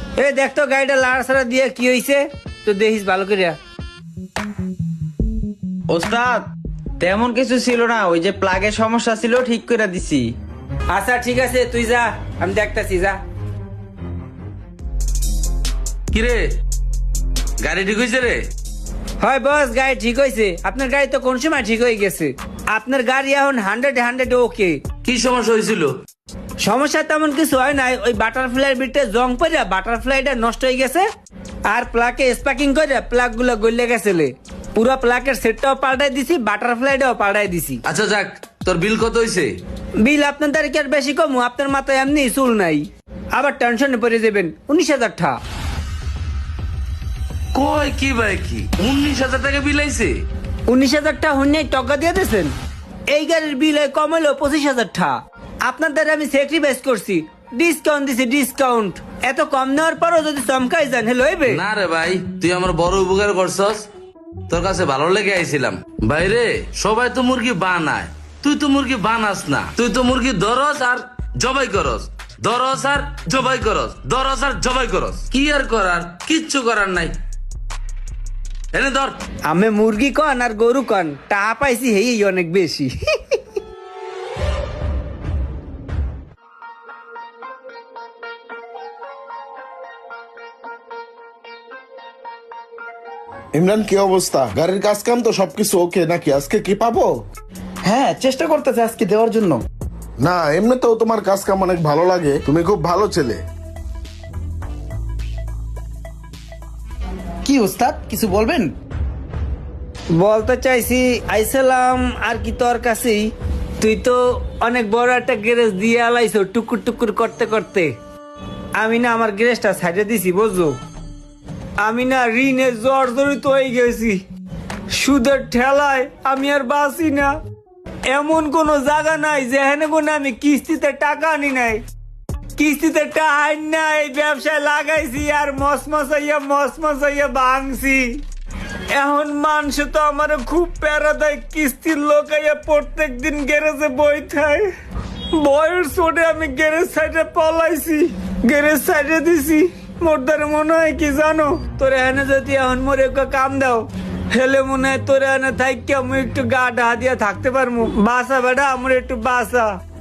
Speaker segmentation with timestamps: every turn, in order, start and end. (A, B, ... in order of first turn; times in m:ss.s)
0:00.2-0:03.6 A
0:05.9-0:10.4 B
0:10.9-0:13.2 A
0:16.1-0:16.5 C
0:17.6-0:18.4 C
0:19.2-0:24.8 A
0:25.0-0:25.9 C
0:26.6-0:31.1 A
0:31.7-0:37.8 A
0:37.9-0:39.6 C
0:40.0-0:45.4 A
0:47.5-0:50.2 C
0:50.7-0:52.5 A
0:53.1-1:01.6 A
1:01.5-1:03.9 C
1:04.5-1:17.2 C
1:18.7-1:19.2 C
1:19.5-1:23.4 A
1:33.6-1:37.2 D
1:37.8-1:39.6 E
1:40.2-1:43.4 D
1:47.4-1:48.7 E
1:50.1-1:57.9 A
1:58.8-2:00.8 A
2:01.8-2:04.2 A
2:04.9-2:07.4 A
2:08.1-2:11.8 A
2:12.6-2:18.2 A
2:18.9-2:24.7 A
2:25.3-2:39.8 A